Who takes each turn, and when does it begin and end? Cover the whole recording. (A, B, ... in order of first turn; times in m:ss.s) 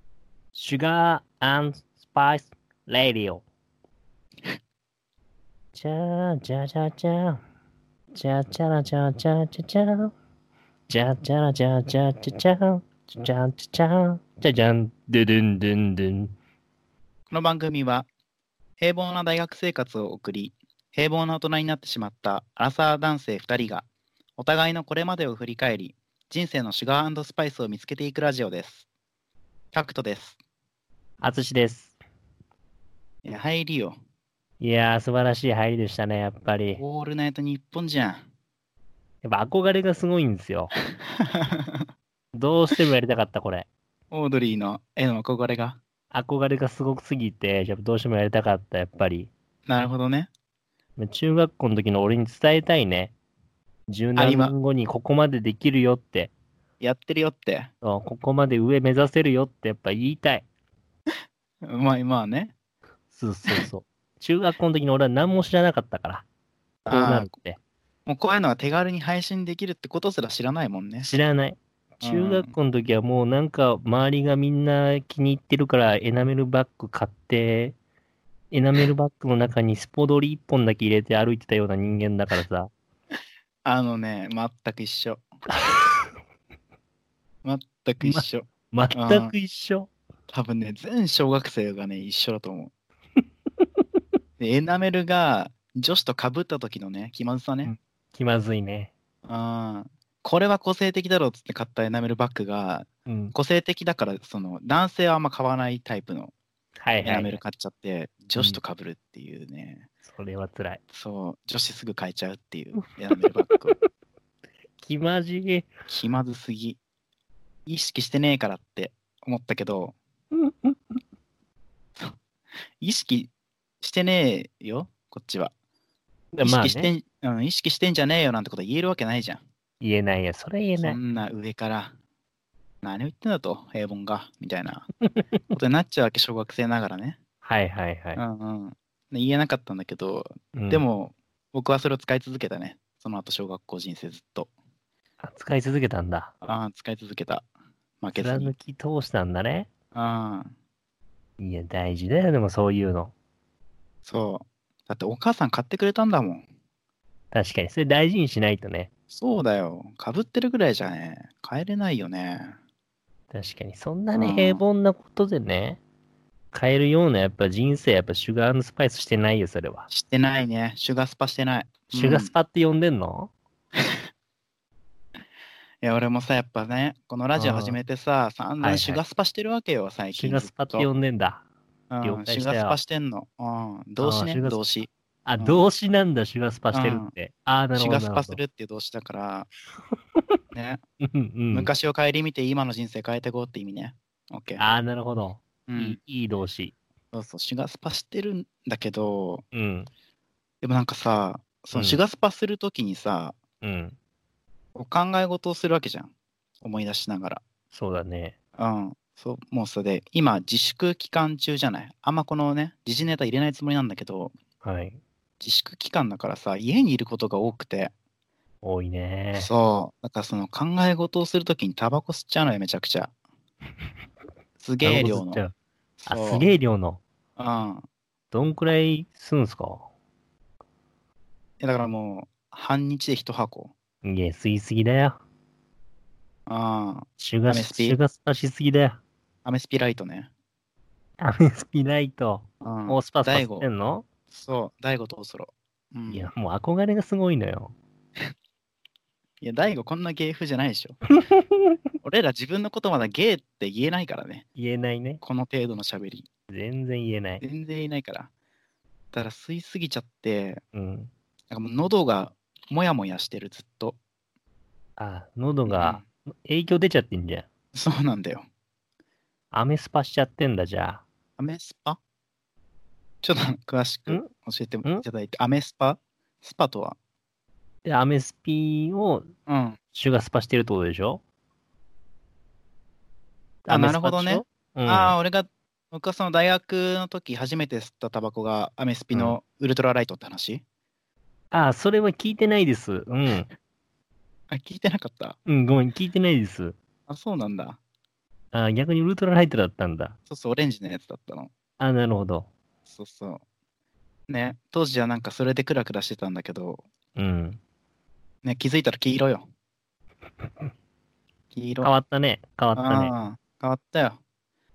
0:00.5-0:03.4 A
0:05.7-0:07.4 A
0:08.1-0:10.1 A
0:10.9-0:16.3 A
0:17.3-0:18.1 B
0:18.8-0:23.8 B
0:24.4-0:28.9 B
0:29.7-0:30.4 B
0:31.2-0:31.9 A
0:33.2-0:34.0 B
0:34.6-0:36.8 A
0:36.8-0:38.2 B
0:39.2-0:40.7 A
0:41.0-0:41.8 B
0:42.3-0:43.7 A
0:44.1-0:45.8 B
0:46.1-0:49.3 A
0:49.7-0:50.3 B
0:51.0-0:53.1 A
0:53.9-0:56.3 A
0:54.2-0:54.5 B
0:56.8-0:57.7 B
0:57.8-1:00.4 A
1:01.6-1:02.5 B
1:03.1-1:06.2 A
1:06.8-1:07.3 B
1:06.9-1:07.6 A
1:08.1-1:11.1 B
1:11.0-1:17.8 A
1:12.0-1:12.5 B
1:18.5-1:22.7 A
1:23.6-1:25.2 B
1:25.6-1:26.0 A
1:27.4-1:29.3 B
1:28.0-1:29.9 A
1:30.3-1:32.7 B
1:34.4-1:37.7 B
1:37.6-1:38.9 A
1:39.2-1:46.3 B
1:43.1-1:43.4 A
1:46.8-1:47.3 A
1:47.0-1:49.9 B
1:50.1-1:50.8 A
1:50.9-1:53.8 B
1:54.8-1:55.7 A
1:55.9-1:56.8 B
1:57.7-2:00.0 B
2:00.3-2:01.0 A
2:02.8-2:05.5 B
2:06.3-2:06.9 A
2:06.4-2:09.4 B
2:09.8-2:11.0 A
2:10.8-2:11.9 B
2:12.8-2:14.9 B
2:15.5-2:17.2 B
2:17.4-2:18.2 A
2:18.2-2:24.5 B
2:20.5-2:20.8 A
2:25.2-2:26.3 A
2:26.4-2:27.4 B
2:28.0-2:28.5 B
2:28.1-2:29.7 A
2:29.9-2:30.5 B
2:31.4-2:33.1 A
2:34.0-2:36.4 B
2:37.3-2:38.9 A
2:39.1-2:42.6 B
2:43.3-2:45.8 A
2:44.2-2:44.6 B
2:46.5-2:49.9 A
2:49.9-2:52.3 B
2:51.9-2:53.3 A
2:53.8-2:54.0 B
2:55.8-3:00.9 B
2:57.4-2:57.8 A
2:58.6-2:59.0 A
3:00.2-3:01.4 A
3:01.9-3:04.9 B
3:02.0-3:02.8 A
3:04.0-3:04.6 A
3:05.2-3:08.4 A
3:06.7-3:07.1 B
3:07.7-3:09.5 B
3:10.5-3:10.8 B
3:11.0-3:11.7 A
3:11.5-3:14.6 B
3:14.6-3:16.8 A
3:15.7-3:16.0 B
3:17.1-3:19.4 B
3:19.5-3:19.9 A
3:20.6-3:23.4 B
3:21.7-3:22.0 A
3:23.6-3:24.0 A
3:24.8-3:27.4 B
3:27.7-3:28.4 A
3:28.6-3:34.3 B
3:34.6-3:35.0 A
3:35.4-3:37.9 B
3:38.6-3:39.5 A
3:39.3-3:43.1 B
3:44.6-3:45.4 B
3:44.8-3:45.5 A
3:46.0-3:46.5 B
3:46.1-3:47.0 A
3:47.4-3:47.8 B
3:48.3-3:49.8 A
3:51.6-3:53.7 B
3:54.0-3:55.2 A
3:56.5-3:58.0 B
3:57.2-3:59.0 A
3:59.4-4:00.3 B
4:01.2-4:04.0 A
4:02.6-4:03.7 B
4:04.3-4:06.3 B
4:06.1-4:07.7 A
4:09.4-4:11.0 B
4:11.2-4:11.8 A
4:12.0-4:14.5 B
4:14.6-4:15.2 A
4:15.2-4:16.3 B
4:16.5-4:17.4 A
4:17.4-4:18.3 B
4:19.1-4:20.6 B
4:20.7-4:21.1 A
4:21.5-4:24.0 B
4:25.0-4:27.5 A
4:25.7-4:26.0 B
4:27.7-4:28.4 B
4:29.5-4:31.0 A
4:31.4-4:32.0 B
4:33.2-4:37.0 B
4:37.8-4:39.3 A
4:39.5-4:39.8 B
4:39.9-4:41.2 A
4:43.6-4:45.2 A
4:43.7-4:50.6 B
4:49.1-4:49.4 A
4:51.5-4:53.5 A
4:54.5-4:55.4 B
4:55.5-4:56.8 A
4:57.1-4:57.8 B
4:58.5-5:00.2 A
5:00.3-5:01.5 B
5:01.8-5:02.5 A
5:02.9-5:03.4 B
5:04.3-5:06.8 B
5:07.2-5:07.6 A
5:08.4-5:09.5 B
5:11.5-5:11.9 B
5:11.8-5:13.1 A
5:12.8-5:14.2 B